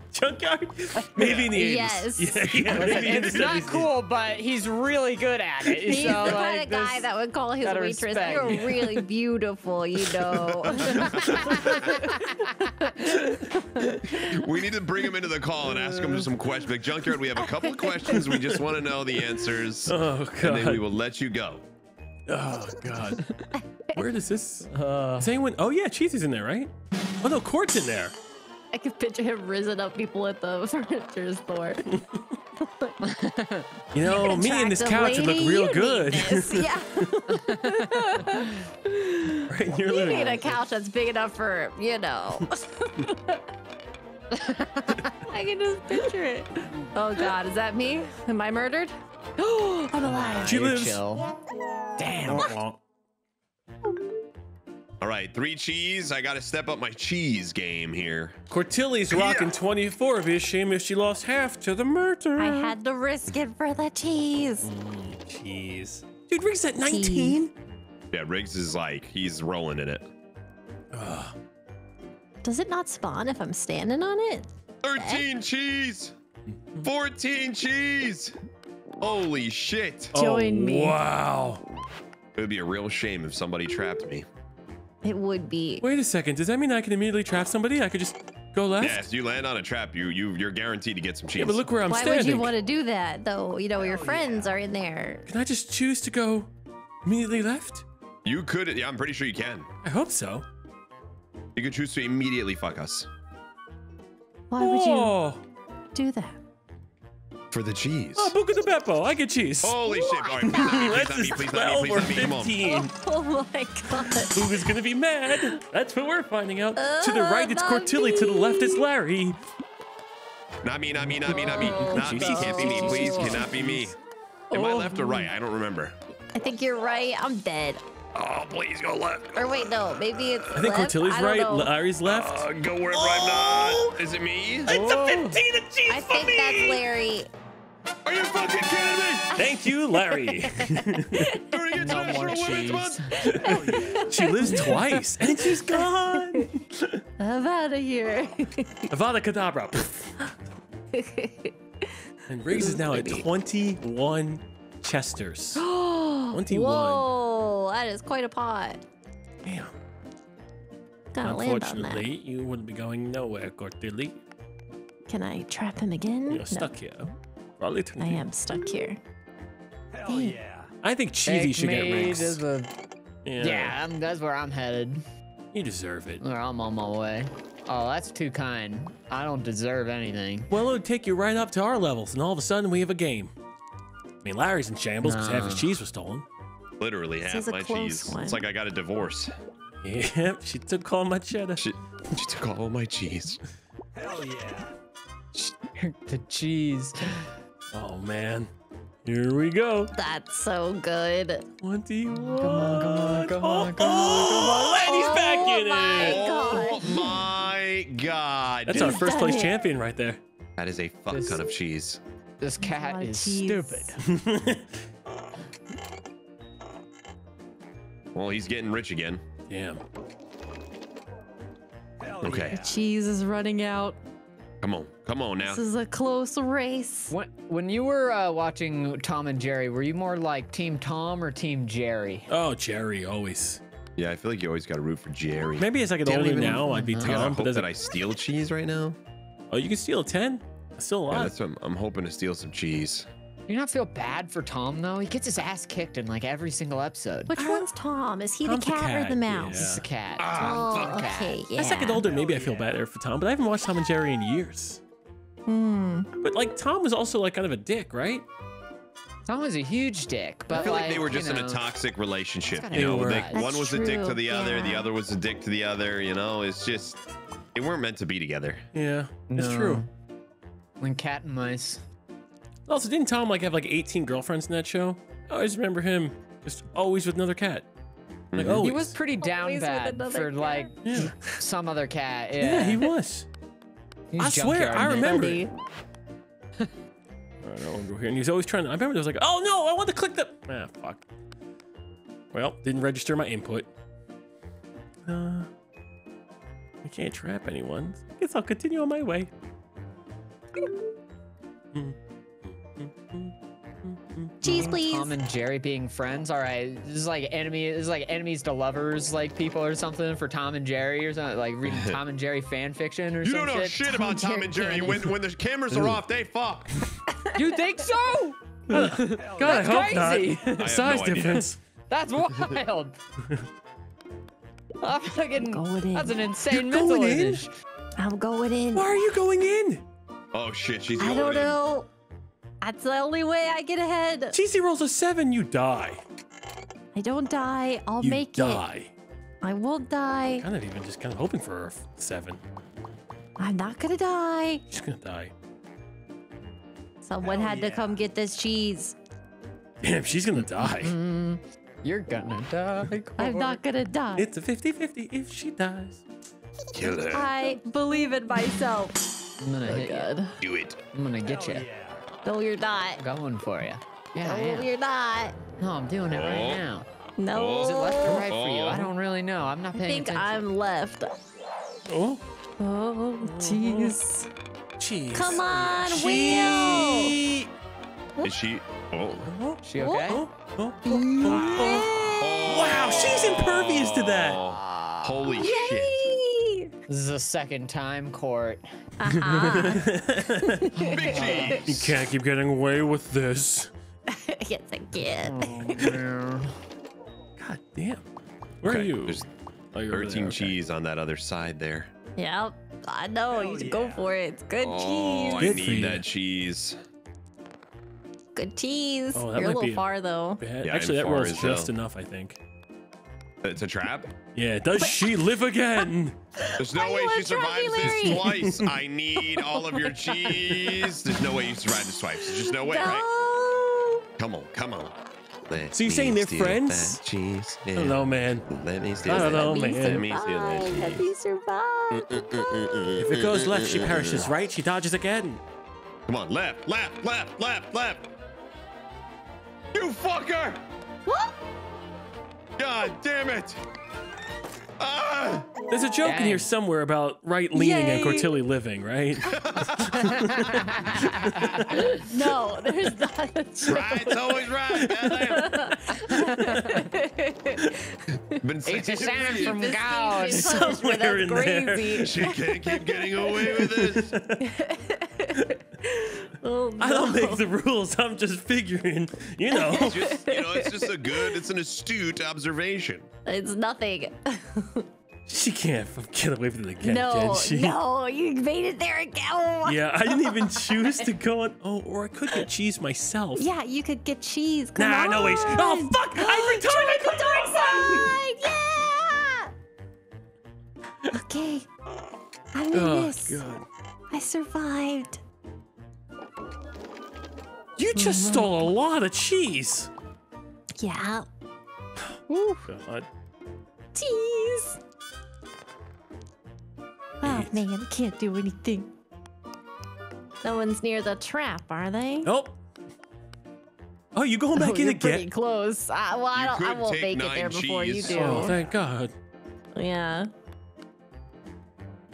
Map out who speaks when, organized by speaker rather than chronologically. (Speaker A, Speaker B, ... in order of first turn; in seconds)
Speaker A: 0.1-3.9, 5.7-6.4, 8.4-8.9, 10.8-11.8, 13.1-13.6, 18.1-18.6, 19.9-20.8, 22.3-23.3, 23.9-28.1, 31.9-32.2, 33.9-37.4, 39.5-40.6, 50.4-51.0, 52.2-52.8, 58.5-62.7, 64.6-67.5, 70.9-71.3, 76.5-76.9, 80.1-81.6, 85.8-89.1, 91.3-92.5, 95.3-96.5, 97.0-97.8, 99.8-100.5, 104.6-105.4, 108.2-109.8, 110.4-113.0, 114.2-119.4, 121.2-123.9, 130.6-134.0, 134.7-136.8, 139.3-141.3, 144.1-147.0, 148.9-150.3, 152.3-155.6, 156.3-157.1, 159.4-159.7, 161.2-164.2, 166.3-168.2, 170.8-172.4, 173.2-173.8, 175.5-176.2, 180.5-183.3, 184.2-186.2, 189.8-191.6, 197.7-198.5, 199.1-199.9, 201.6-206.2, 208.7-210.2, 214.0-214.7, 219.5-219.8, 232.3-233.6, 235.6-237.7, 239.5-241.3, 247.4-247.7, 248.4-249.8, 251.6-254.8, 256.2-258.2, 262.7-263.3, 268.7-269.8, 272.7-277.7, 278.4-278.9, 280.8-281.4, 282.4-283.3, 284.2-285.5, 287.4-291.0, 292.3-293.7, 295.1-295.5, 296.8-299.3, 301.7-304.7, 318.7-321.6, 326.5-327.5, 328.7-329.8, 334.3-336.0, 338.0-338.9, 340.4-342.4, 344.7-345.3, 349.8-351.0, 354.2-356.0, 371.9-372.2, 373.2-374.0, 374.8-377.5, 379.3-381.9, 382.5-384.4, 389.1-390.7, 391.6-393.7, 397.4-398.0, 398.6-400.6, 405.4-406.1, 409.1-409.9, 410.4-412.4, 414.3-416.2, 417.9-418.6, 425.7-427.0, 427.8-428.5, 429.0-430.1, 433.0-435.4, 445.7-451.6, 456.2-456.9, 460.3-462.5, 463.4-464.4, 465.3-465.6, 466.8-470.1, 475.3-477.8, 479.6-483.5, 484.8-488.1, 492.7-493.6, 497.8-499.9, 502.7-503.1, 507.2-507.6, 512.2-512.6, 514.1-515.3, 518.1-519.1
Speaker B: 1.2-1.5, 10.6-12.0, 14.1-21.6, 55.0-58.4, 59.1-59.5, 68.1-70.1, 74.8-76.1, 76.8-78.3, 79.0-80.2, 82.3-84.3, 88.8-91.7, 98.2-99.7, 101.5-103.1, 107.5-108.3, 109.6-112.6, 120.6-124.0, 124.5-126.0, 128.2-130.7, 132.1-134.7, 138.1-139.3, 141.4-143.1, 186.8-189.3, 191.6-193.4, 206.0-209.1, 210.6-212.0, 218.1-219.2, 222.2-222.6, 224.6-225.6, 234.0-239.0, 241.1-243.1, 250.2-251.1, 260.6-267.0, 267.6-268.7, 278.3-278.8, 311.7-312.0, 313.2-316.9, 320.6-321.5, 330.3-331.6, 356.7-357.4, 360.4-360.8, 366.1-366.6, 367.3-368.9, 378.2-379.3, 381.4-386.1, 390.8-392.0, 398.7-399.3, 399.9-401.9, 404.6-406.8, 410.6-411.7, 413.4-414.1, 416.6-423.1, 424.2-424.9, 425.5-431.1, 431.9-434.3, 436.1-438.1, 439.7-440.6, 442.6-443.6, 444.8-445.5, 449.3-450.2, 451.0-451.6, 453.6-456.0, 458.3-459.6, 461.8-464.2, 469.7-473.1, 516.3-518.7
Speaker C: 1.5-2.9, 5.8-12.9, 17.4-17.9, 23.5-24.0, 28.7-31.9, 32.6-33.0, 34.0-43.4, 45.2-50.5, 62.4-64.7, 66.8-67.4, 72.4-75.2, 80.1-81.0, 85.0-85.8, 91.9-95.3, 104.5-105.1, 106.0-106.4, 109.8-110.9, 112.6-114.4, 116.8-118.8, 121.3-123.4, 124.5-125.3, 126.3-127.8, 129.3-131.7, 135.9-137.3, 139.3-141.5, 143.1-146.5, 147.2-148.9, 150.9-152.0, 152.5-153.3, 155.6-158.8, 161.1-162.1, 165.1-166.7, 168.0-169.0, 170.1-170.3, 187.2-188.4, 199.9-201.5, 204.3-206.9, 208.7-209.6, 212.6-214.0, 222.5-224.0, 225.4-227.1, 247.3-249.7, 250.3-252.1, 255.5-256.1, 263.3-264.9, 279.2-280.7, 284.9-285.5, 304.4-305.1, 313.9-314.9, 317.2-317.6, 325.4-326.2, 328.0-328.9, 331.0-331.9, 332.6-334.4, 336.9-338.6, 339.4-340.5, 343.4-344.6, 347.0-349.0, 353.2-354.3, 357.1-359.0, 359.6-360.4, 362.2-363.0, 364.2-365.4, 367.2-368.3, 369.7-371.1, 372.6-374.3, 375.1-377.2, 379.8-380.2, 380.8-382.5, 385.4-386.7, 389.0-391.5, 394.1-395.9, 402.2-405.6, 408.4-410.4, 414.8-415.1, 416.4-418.5, 422.6-424.0, 429.1-432.9, 441.1-441.3, 447.5-448.4, 451.7-458.4, 459.1-463.7, 464.4-467.4, 469.5-471.4, 473.3-474.9, 476.8-480.7, 483.4-489.5, 491.1-491.7, 492.5-493.4, 494.1-495.2, 498.0-498.5, 500.8-501.3, 502.3-502.7, 503.9-504.8, 507.2-508.9, 510.4-512.3, 514.5-518.6, 519.8-520.3
Speaker D: 2.7-7.1, 7.6-8.8, 11.5-12.5, 24.7-25.3, 33.0-33.8, 37.5-38.0, 44.3-45.1, 49.8-51.3, 52.0-52.5, 134.7-135.4, 141.7-143.1, 171.3-172.7, 173.4-175.0, 176.2-180.5, 185.0-185.7, 195.4-197.3, 202.2-204.8, 211.1-211.4, 212.4-214.0, 227.1-232.3, 236.7-237.2, 243.5-247.3, 249.5-251.5, 259.3-261.7, 262.5-263.5, 269.3-269.9, 270.8-271.8, 278.6-282.9, 284.1-285.4, 304.4-315.0, 317.4-320.8, 321.9-323.0, 324.8-327.5, 350.7-353.6, 359.4-360.1, 360.9-361.7, 363.0-364.7, 365.6-366.9, 367.6-370.4, 375.5-375.8, 379.6-380.3, 384.4-385.3, 386.9-388.6, 390.8-391.7, 395.1-396.6, 446.0-446.5, 450.2-451.0, 458.6-460.7
Speaker E: 93.8-94.6, 143.3-144.3, 169.9-170.7, 193.9-194.7, 222.0-222.8, 252.0-252.7, 319.1-320.2, 347.2-348.0, 361.2-362.1, 403.3-404.1